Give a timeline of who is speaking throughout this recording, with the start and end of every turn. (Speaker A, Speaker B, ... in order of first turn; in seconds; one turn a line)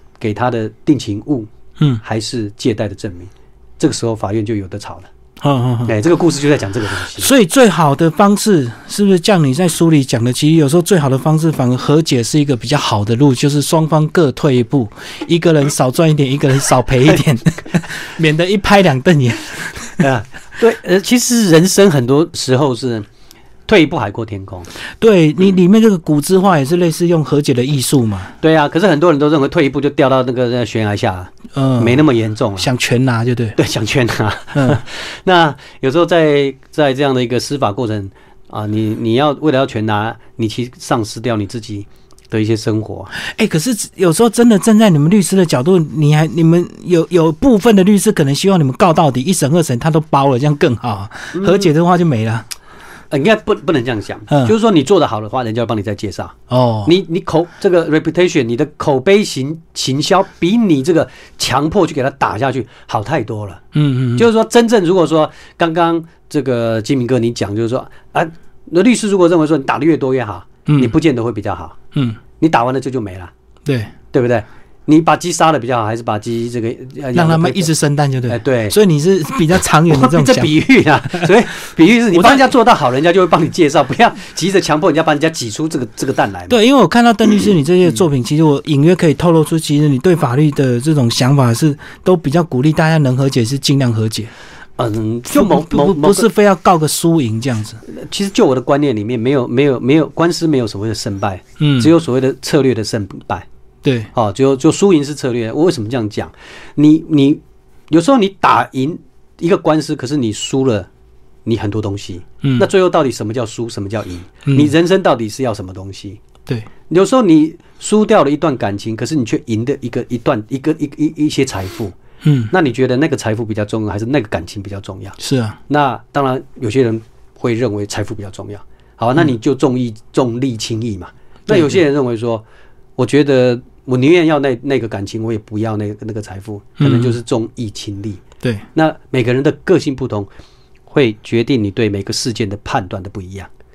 Speaker A: 0.2-1.5
Speaker A: 2.0-5.1
Speaker B: 5.4-5.9
Speaker A: 5.8-7.3
Speaker B: 7.2-20.0
Speaker A: 20.0-23.1
Speaker A: 23.7-24.7
Speaker B: 25.0-28.3
Speaker A: 28.4-32.7
Speaker B: 31.5-32.0
Speaker B: 32.6-33.6
Speaker A: 33.6-43.1
Speaker B: 34.5-34.8
Speaker B: 43.2-52.5
Speaker A: 51.3-51.7
Speaker A: 53.1-63.6
Speaker B: 56.5-56.9
Speaker B: 63.7-64.3
Speaker A: 64.2-71.8
Speaker B: 70.7-70.9
Speaker B: 71.9-72.2
Speaker A: 72.4-73.3
Speaker B: 73.7-73.9
Speaker A: 74.1-77.7
Speaker B: 77.1-80.5
Speaker A: 78.3-78.8
Speaker A: 79.9-86.6
Speaker B: 82.1-82.4
Speaker B: 86.5-94.3
Speaker A: 94.8-96.3
Speaker B: 95.3-97.8
Speaker A: 97.8-103.5
Speaker B: 101.6-101.9
Speaker B: 103.8-104.1
Speaker A: 104.1-110.9
Speaker A: 111.5-116.2
Speaker B: 112.4-112.7
Speaker A: 116.9-122.0
Speaker B: 122.2-122.5
Speaker A: 122.5-132.4
Speaker B: 125.2-125.6
Speaker B: 131.5-131.8
Speaker A: 133.0-138.2
Speaker B: 136.8-137.1
Speaker A: 138.7-140.3
Speaker A: 140.9-143.5